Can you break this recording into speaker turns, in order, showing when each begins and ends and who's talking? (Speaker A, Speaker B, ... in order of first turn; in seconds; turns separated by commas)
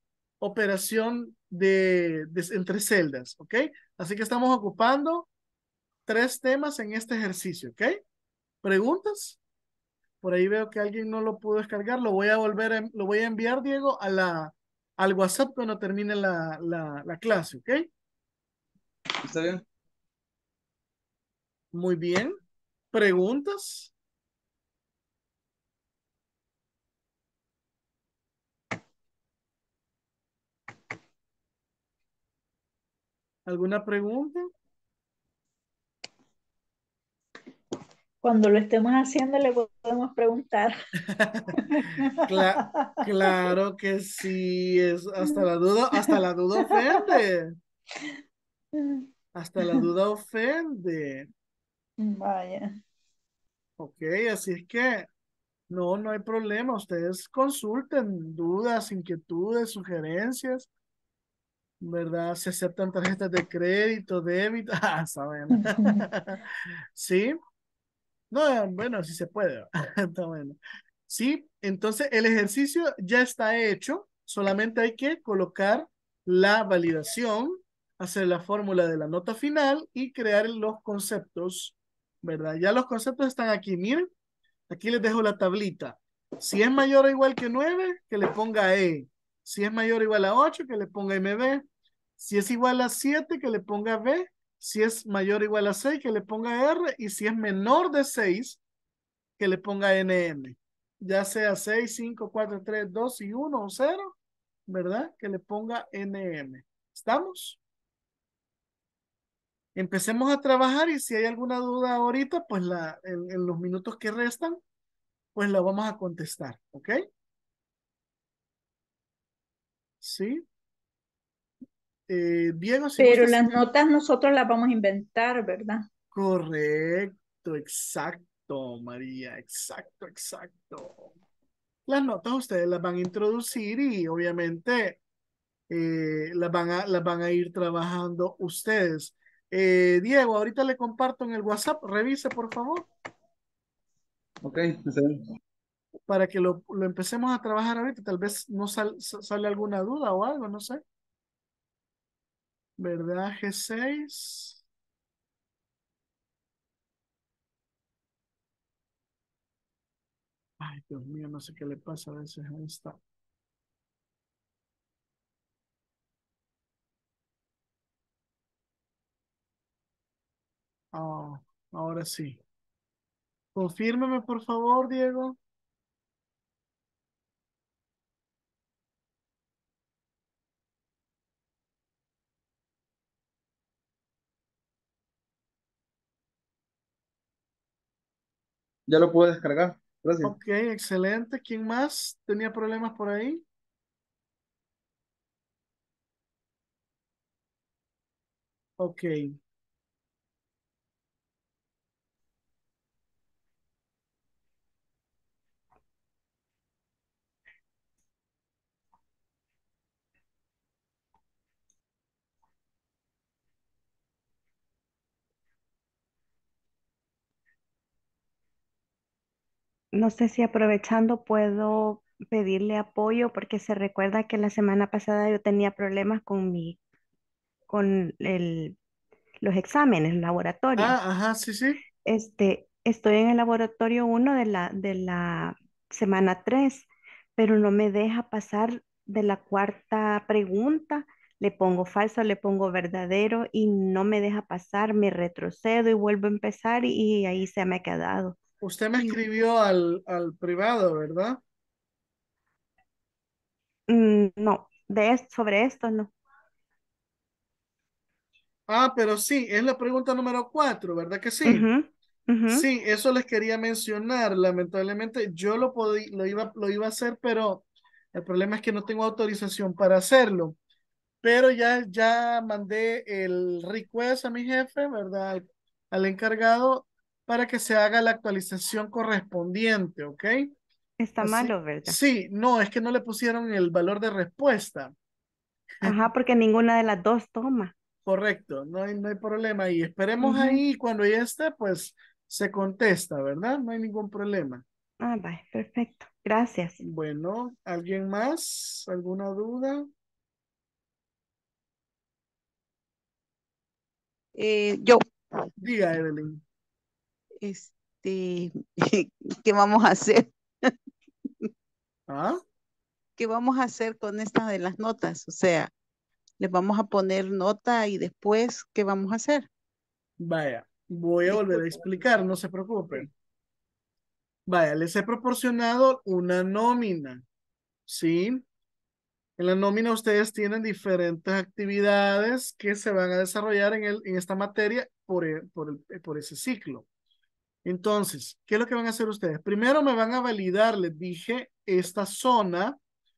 Speaker A: 0.4-5.3, Speaker A: 6.1-8.0, Speaker A: 8.6-9.4, Speaker A: 10.2-17.9, Speaker B: 19.2-19.6, Speaker A: 21.7-22.4, Speaker A: 22.9-23.9, Speaker A: 33.5-34.5, Speaker C: 38.2-40.8, Speaker A: 41.1-41.6, Speaker C: 41.6-43.5, Speaker A: 42.2-47.6, Speaker C: 46.1-47.2, Speaker C: 48.8-49.1, Speaker A: 49.4-51.3, Speaker C: 52.0-52.8, Speaker A: 53.8-55.1, Speaker A: 55.7-60.7, Speaker A: 61.8-67.4, Speaker C: 65.6-66.0, Speaker A: 68.3-84.1, Speaker A: 84.7-91.6, Speaker A: 92.2-98.6, Speaker A: 99.4-104.2, Speaker A: 104.7-107.6, Speaker A: 109.8-114.6, Speaker A: 115.3-117.0, Speaker A: 120.0-120.5, Speaker A: 122.1-123.4, Speaker C: 123.0-125.9, Speaker A: 126.1-131.1, Speaker A: 131.9-135.0, Speaker A: 135.7-142.9, Speaker B: 144.4-145.2, Speaker A: 146.1-150.8, Speaker A: 152.8-154.6, Speaker A: 160.6-163.0, Speaker A: 170.9-172.4, Speaker A: 173.6-175.4, Speaker B: 188.9-190.3, Speaker A: 190.2-193.4, Speaker A: 198.8-199.3, Speaker D: 219.9-226.8, Speaker D: 227.7-228.8, Speaker D: 229.4-231.0, Speaker A: 230.8-231.8, Speaker D: 232.1-248.4, Speaker A: 248.6-251.4, Speaker D: 253.9-256.1, Speaker A: 258.7-261.7, Speaker D: 261.4-262.7, Speaker A: 262.5-270.6, Speaker A: 271.2-280.5, Speaker D: 281.0-282.0, Speaker A: 281.2-284.9, Speaker D: 285.8-287.7, Speaker A: 288.1-294.6, Speaker D: 290.2-290.6, Speaker D: 295.0-296.8, Speaker A: 296.8-299.9, Speaker E: 304.4-305.0, Speaker A: 305.6-306.4, Speaker E: 307.4-310.3, Speaker A: 312.1-312.4, Speaker E: 313.2-315.7, Speaker E: 316.4-319.5, Speaker A: 320.2-323.1, Speaker E: 321.3-321.8, Speaker A: 324.5-327.2, Speaker A: 327.9-328.4, Speaker A: 329.4-336.9, Speaker A: 337.6-342.8